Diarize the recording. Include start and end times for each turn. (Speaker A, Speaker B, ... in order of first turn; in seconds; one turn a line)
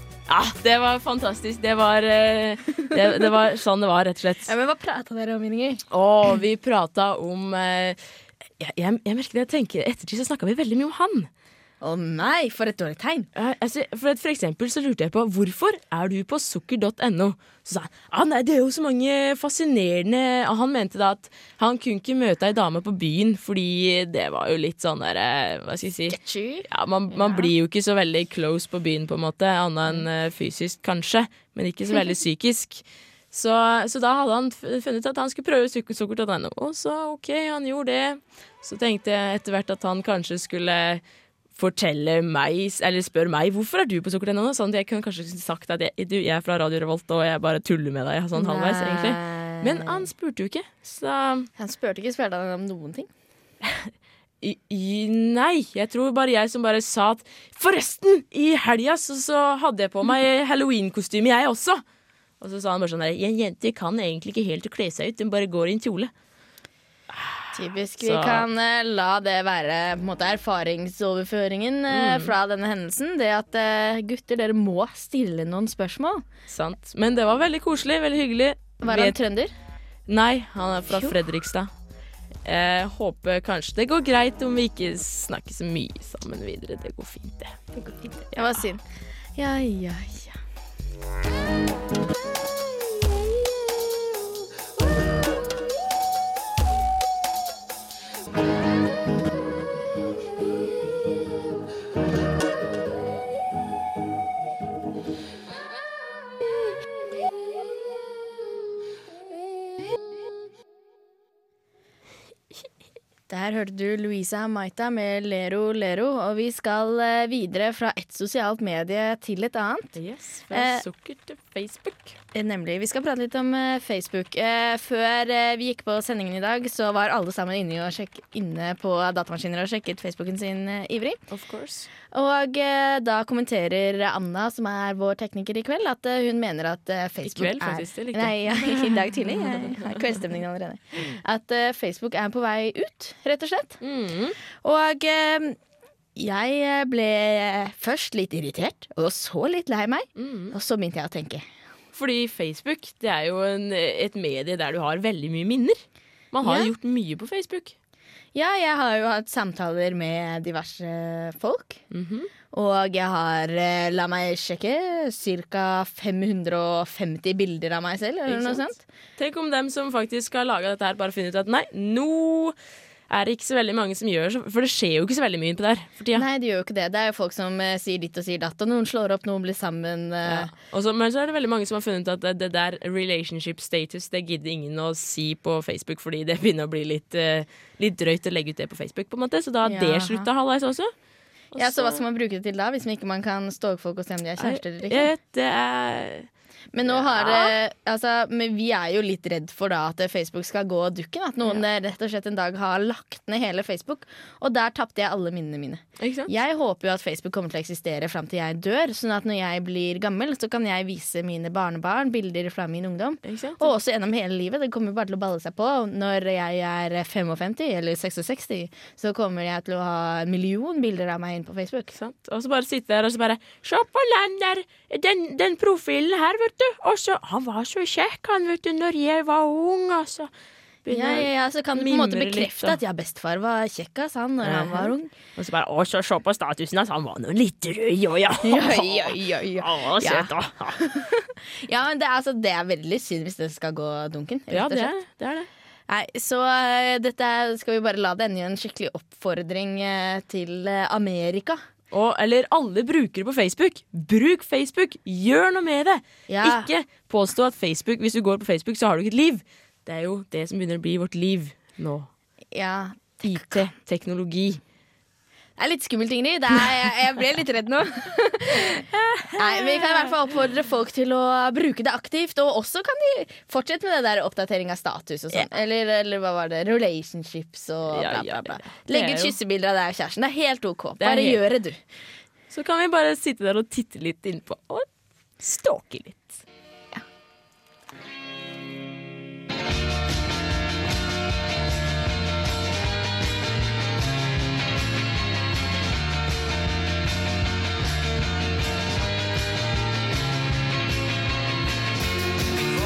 Speaker A: 0.3-4.5
Speaker B: 4.5-5.8
Speaker A: 5.9-8.0
Speaker A: 8.6-11.3
Speaker B: 11.8-13.3
Speaker A: 13.3-41.0
Speaker B: 26.1-27.5
Speaker A: 41.5-51.5
Speaker B: 48.4-50.1
Speaker B: 51.6-53.1
Speaker A: 53.6-53.9
Speaker A: 54.4-61.8
Speaker A: 62.4-66.1
Speaker A: 67.1-68.5
Speaker B: 67.5-76.3
Speaker A: 71.9-72.3
Speaker A: 76.5-79.2
Speaker B: 78.8-79.5
Speaker A: 80.1-81.7
Speaker B: 80.9-81.2
Speaker A: 82.5-87.7
Speaker B: 87.7-88.8
Speaker A: 88.3-88.6
Speaker B: 89.4-90.4
Speaker B: 113.3-120.0
Speaker A: 120.0-122.2
Speaker B: 120.5-120.9
Speaker B: 122.3-131.2
Speaker A: 131.3-131.9
Speaker B: 132.1-143.8
Speaker A: 137.2-140.2
Speaker A: 143.8-144.4
Speaker B: 144.5-145.6
Speaker B: 146.2-151.5
Speaker A: 150.2-150.5
Speaker A: 151.9-157.8
Speaker B: 156.4-156.7
Speaker B: 158.3-161.8
Speaker A: 161.9-162.3
Speaker B: 162.5-168.8
Speaker A: 168.3-172.6
Speaker A: 173.1-176.2
Speaker B: 176.1-180.5
Speaker A: 180.2-190.9
Speaker B: 189.6-190.3
Speaker A: 191.5-192.0
Speaker B: 191.6-195.1
Speaker A: 194.4-196.3
Speaker B: 196.7-221.9
Speaker A: 196.9-197.5
Speaker A: 206.0-206.3
Speaker A: 213.2-213.7
Speaker A: 221.9-230.3
Speaker A: 230.8-232.8
Speaker B: 230.9-235.1
Speaker A: 234.4-240.8
Speaker B: 238.4-244.9
Speaker A: 244.5-245.5
Speaker B: 245.9-251.6
Speaker A: 251.9-262.1
Speaker B: 256.3-256.7
Speaker B: 262.5-263.7
Speaker A: 263.2-264.6
Speaker B: 265.6-268.9
Speaker A: 268.6-270.2
Speaker B: 269.4-281.8
Speaker A: 277.9-279.4
Speaker A: 281.0-281.4
Speaker A: 282.5-284.9
Speaker A: 285.4-286.4